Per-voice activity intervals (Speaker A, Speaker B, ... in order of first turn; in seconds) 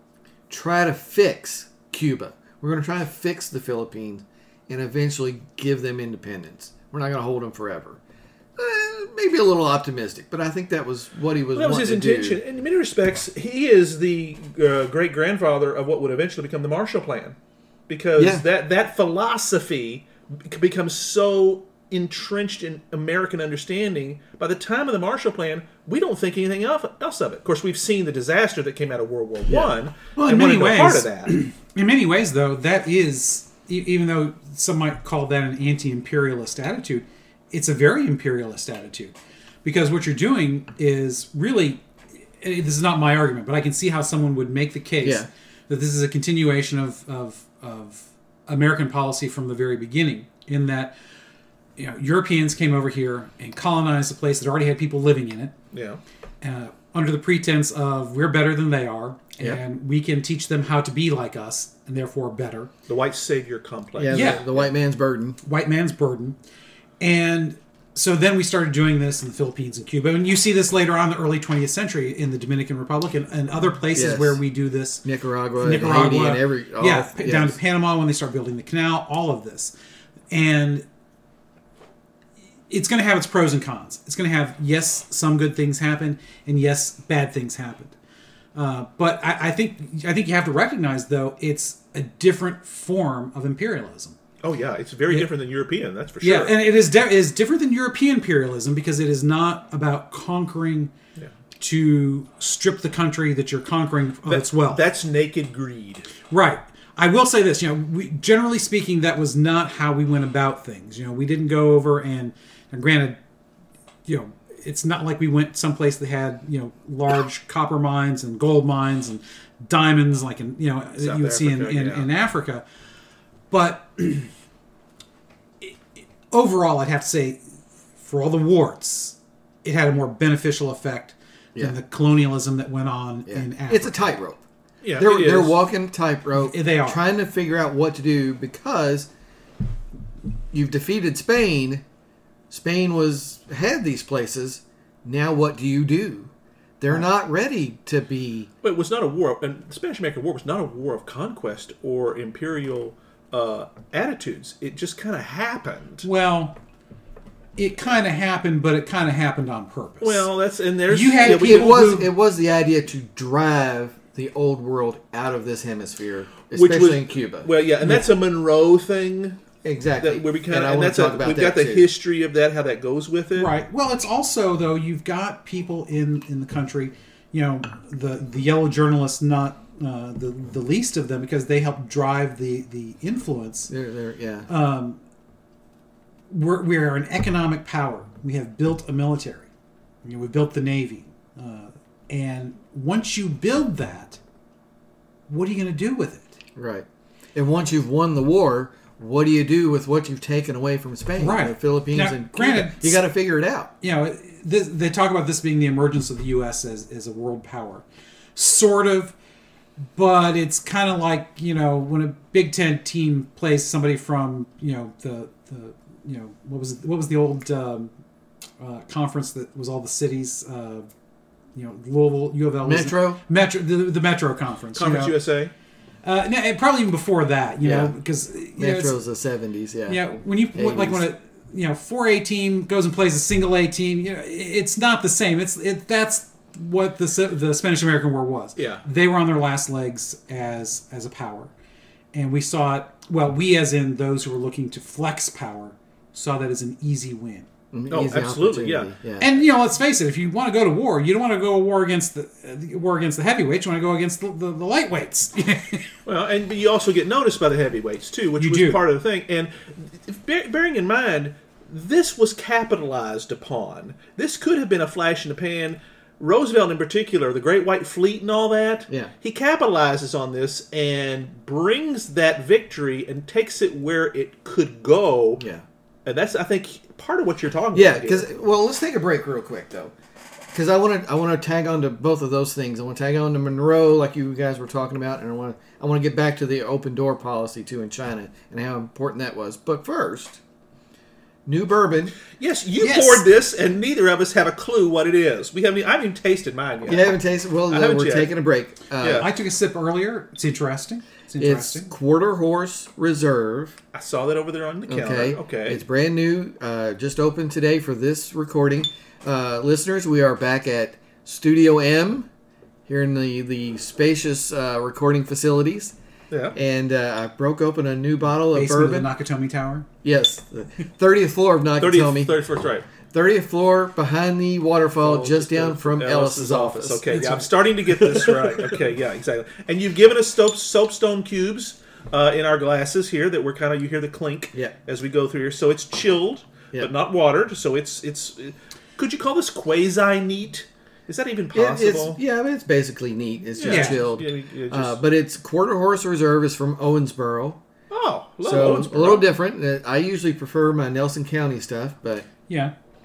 Speaker A: 0.5-8.0, 8.6-12.4, 18.1-18.4, 29.5-29.8, 45.0-45.3, 64.0-65.4, 73.9-74.4, 75.0-77.6, 133.3-134.4, 135.0-139.1, 140.5-141.8, 142.5-148.5, 161.2-167.5, 169.6-171.9, 183.7-184.5, 196.6-203.7, 222.6-223.2, 227.6-227.9, 228.6-230.0, 230.5-231.0, 247.7-249.3, 275.4-275.6, 277.7-279.9, 280.5-290.4, 291.4-292.2, 296.9-299.3, 301.4-303.8, 304.9-312.3, 312.9-315.9, 316.5-319.1, 320.0-322.4, 323.0-327.0, 341.5-347.6, 348.4-352.3
Speaker B: 11.5-17.4, 17.9-31.3, 55.7-56.0, 62.9-64.7, 94.4-96.6, 104.3-106.1, 121.0-122.1, 134.8-135.6, 148.6-156.1, 160.0-161.8, 166.5-169.4, 170.0-173.5, 224.7-225.5, 238.6-238.8, 247.9-248.9, 256.0-275.4, 276.0-278.3, 292.3-297.1, 297.7-298.3, 299.0-299.3, 303.9-305.8, 316.3-316.6, 321.8-322.9, 325.0-342.2, 343.6-345.0, 347.9-349.3
Speaker C: 30.1-41.8, 42.4-50.9, 51.8-55.5, 56.4-62.7, 64.1-64.4, 65.4-66.4, 67.0-75.0, 75.6-79.7, 80.3-80.8, 82.7-88.0, 88.5-94.2, 96.2-100.9, 101.6-104.8, 106.3-113.2, 114.0-122.6, 123.5-124.3, 125.6-127.4, 128.0-133.9, 136.4-137.0, 156.0-156.6, 157.6-160.3, 160.9-162.1, 173.3-183.7, 184.5-185.0, 186.3-189.5, 190.0-194.2, 195.3-196.3, 201.2-203.0, 203.8-209.1, 209.9-217.9, 218.6-220.9, 221.5-225.1, 226.0-228.9, 229.9-241.5, 242.1-247.5, 249.2-255.9, 258.4-258.8, 292.8-293.2, 299.2-301.9, 318.5-319.9, 327.1-327.5, 343.6-344.0, 352.5-352.7